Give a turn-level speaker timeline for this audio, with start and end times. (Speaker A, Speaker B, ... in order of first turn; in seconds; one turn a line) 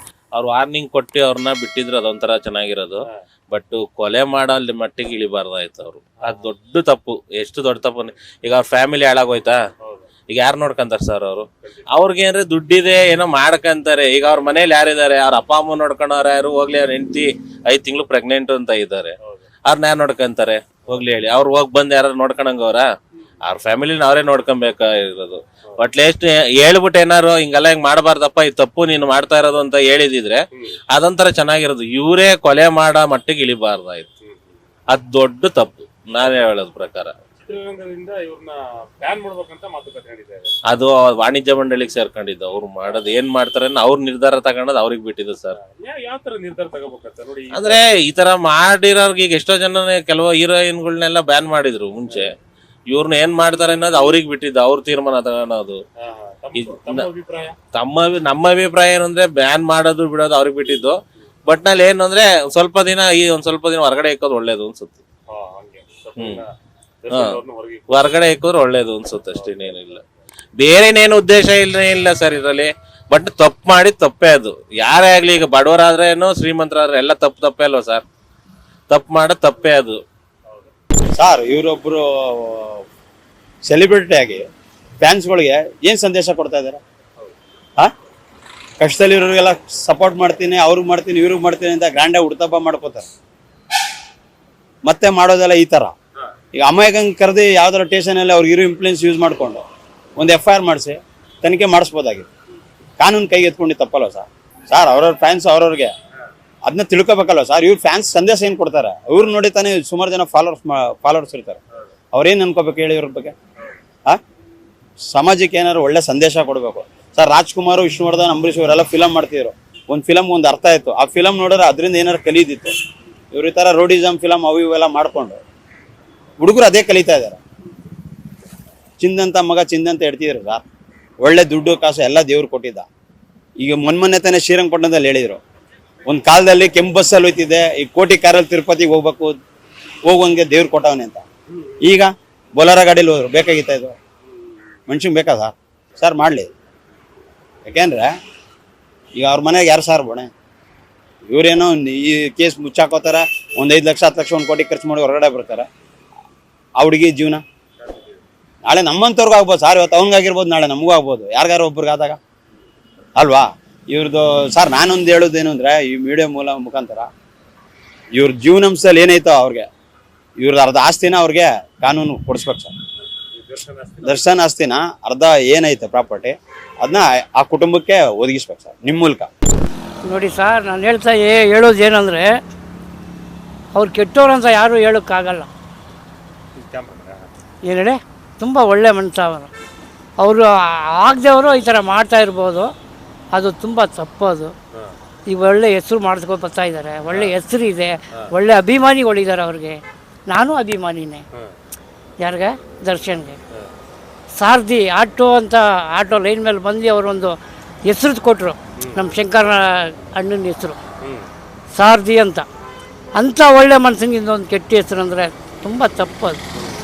Speaker A: 0.3-3.0
Speaker A: 3.5-9.5
Speaker B: 6.2-6.5
Speaker A: 10.3-19.1
Speaker A: 19.7-22.8
Speaker A: 23.5-30.4
Speaker A: 31.0-34.0
Speaker A: 34.9-37.1
Speaker B: 37.4-40.5
Speaker A: 40.7-45.5
Speaker B: 45.6-47.8
Speaker A: 47.5-52.3
Speaker A: 52.9-55.8
Speaker B: 56.0-57.5
Speaker A: 56.6-57.1
Speaker A: 57.7-61.0
Speaker A: 61.5-65.0
Speaker B: 65.3-66.5
Speaker A: 66.2-66.4
Speaker B: 67.0-67.9
Speaker A: 67.1-67.4
Speaker A: 67.9-70.0
Speaker A: 70.6-78.0
Speaker A: 78.9-80.0
Speaker C: 81.2-82.8
Speaker C: 83.6-84.5
Speaker C: 85.0-86.8
Speaker C: 88.8-93.1
Speaker C: 94.8-95.9
Speaker C: 96.5-99.6
Speaker C: 100.2-102.3
Speaker C: 103.0-105.9
Speaker C: 106.6-111.6
Speaker C: 112.1-113.3
Speaker C: 115.1-122.7
Speaker C: 123.3-125.4
Speaker C: 126.4-127.4
Speaker C: 129.0-130.6
Speaker C: 131.2-132.9
Speaker C: 133.6-135.4
Speaker C: 136.1-139.3
Speaker C: 140.0-141.2
Speaker C: 141.8-143.9
Speaker C: 144.9-146.5
Speaker C: 147.6-148.1
Speaker C: 149.1-150.3
Speaker C: 151.3-155.7
Speaker C: 156.8-157.4
Speaker C: 158.6-162.2
Speaker C: 163.2-167.1
Speaker C: 168.1-169.7
Speaker C: 170.4-172.7
Speaker B: 173.4-174.3
Speaker C: 174.0-179.3
Speaker D: 180.0-182.3
Speaker D: 183.7-185.5
Speaker B: 186.6-187.3
Speaker D: 187.7-189.5
Speaker D: 190.2-192.7
Speaker D: 193.3-194.5
Speaker D: 195.3-201.2
Speaker B: 197.1-197.4
Speaker D: 202.2-203.4
Speaker D: 204.3-210.8
Speaker B: 208.8-209.1
Speaker D: 211.7-212.4
Speaker D: 213.2-216.4